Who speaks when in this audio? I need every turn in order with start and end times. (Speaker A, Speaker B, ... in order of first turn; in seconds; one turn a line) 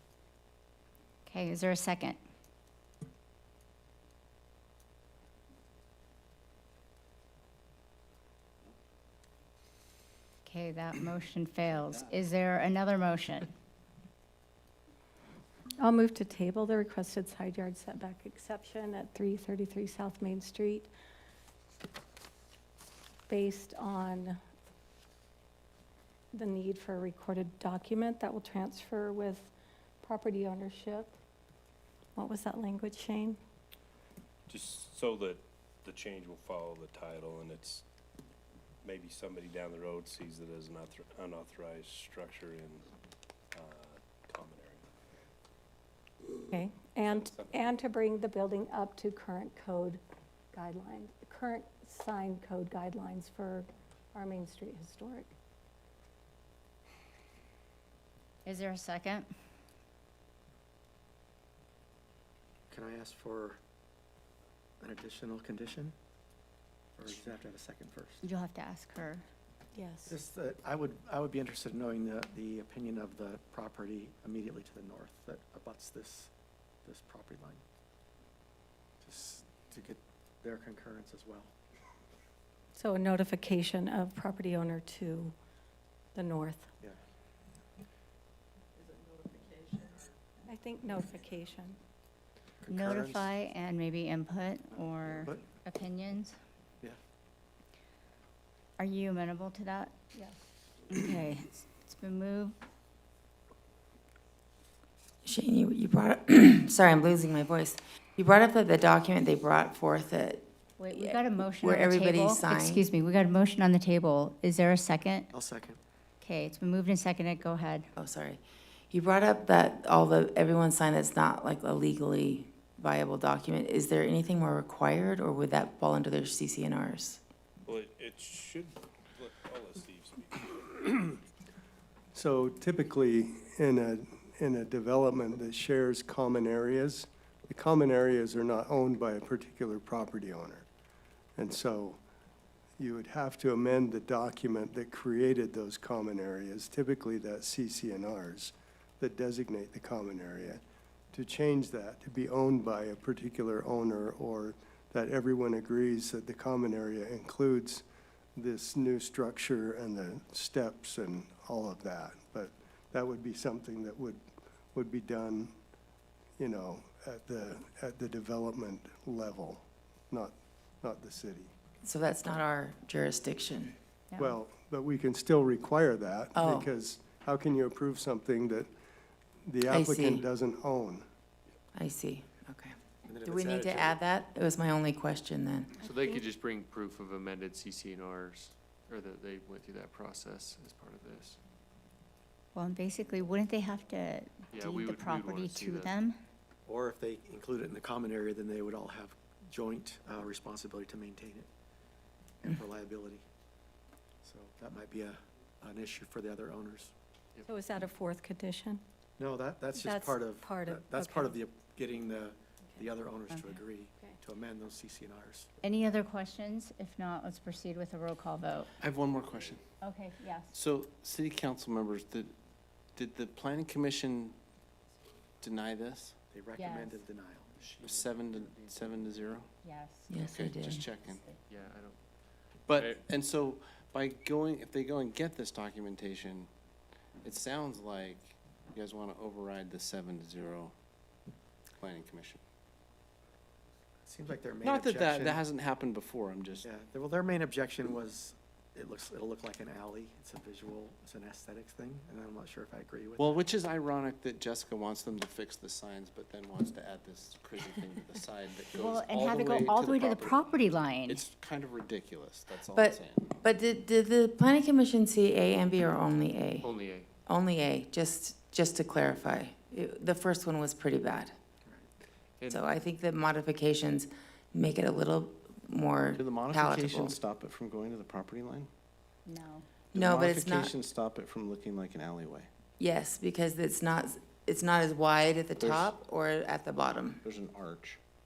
Speaker A: 1.3-2.2
Speaker A: 10.4-13.5
Speaker B: 15.8-20.9
Speaker B: 23.3-24.4
Speaker B: 26.3-29.5
Speaker B: 30.0-31.1
Speaker B: 32.2-33.4
Speaker C: 34.5-37.8
Speaker C: 38.8-42.9
Speaker C: 43.5-44.8
Speaker B: 46.5-50.0
Speaker C: 47.0-47.7
Speaker B: 50.5-55.3
Speaker A: 58.5-59.3
Speaker D: 62.7-63.6
Speaker D: 64.8-66.0
Speaker D: 67.0-68.2
Speaker A: 68.2-69.2
Speaker B: 69.7-70.2
Speaker D: 70.1-76.3
Speaker D: 76.8-77.6
Speaker D: 79.0-81.5
Speaker B: 82.8-85.3
Speaker B: 86.2-86.7
Speaker B: 90.5-91.8
Speaker D: 92.6-93.3
Speaker A: 92.7-96.4
Speaker D: 95.2-95.4
Speaker A: 98.8-99.9
Speaker A: 100.9-102.6
Speaker E: 105.2-112.8
Speaker A: 110.8-115.3
Speaker D: 115.3-115.8
Speaker A: 116.2-117.9
Speaker E: 118.0-127.2
Speaker C: 127.7-131.2
Speaker F: 132.1-140.7
Speaker F: 141.4-142.0
Speaker F: 142.8-150.6
Speaker F: 151.1-157.8
Speaker F: 158.4-164.2
Speaker F: 164.7-165.5
Speaker F: 166.4-171.5
Speaker E: 171.8-173.8
Speaker A: 174.1-174.4
Speaker F: 174.2-178.7
Speaker E: 176.3-176.7
Speaker F: 179.4-181.1
Speaker E: 179.7-180.2
Speaker E: 181.8-182.7
Speaker D: 183.1-184.0
Speaker E: 183.2-185.8
Speaker G: 185.8-191.4
Speaker A: 192.5-196.2
Speaker G: 194.5-196.0
Speaker D: 196.7-201.5
Speaker D: 202.4-203.2
Speaker D: 204.2-206.9
Speaker G: 207.3-207.8
Speaker B: 207.5-208.8
Speaker D: 209.2-215.5
Speaker B: 209.7-211.4
Speaker A: 213.3-213.6
Speaker A: 215.6-218.7
Speaker H: 218.8-219.6
Speaker A: 219.8-220.5
Speaker H: 220.5-222.3
Speaker H: 222.9-224.4
Speaker H: 225.4-226.2
Speaker D: 226.3-227.6
Speaker A: 226.6-227.0
Speaker G: 227.6-229.1
Speaker H: 227.8-229.5
Speaker A: 229.6-230.1
Speaker E: 230.1-230.8
Speaker H: 230.2-231.2
Speaker A: 231.0-231.4
Speaker G: 231.5-233.0
Speaker H: 232.6-236.5
Speaker H: 237.2-240.8
Speaker H: 241.8-242.4
Speaker D: 244.1-245.4
Speaker H: 244.6-246.7
Speaker D: 246.6-253.4
Speaker H: 253.2-263.4
Speaker A: 258.8-261.2
Speaker E: 262.7-266.7
Speaker G: 266.6-267.1
Speaker E: 267.3-271.3
Speaker G: 272.4-272.6
Speaker E: 272.5-277.1
Speaker H: 276.1-278.7
Speaker A: 279.3-279.7
Speaker H: 279.9-282.5
Speaker E: 279.9-280.7
Speaker E: 282.8-287.2
Speaker H: 285.6-285.9
Speaker H: 287.2-288.0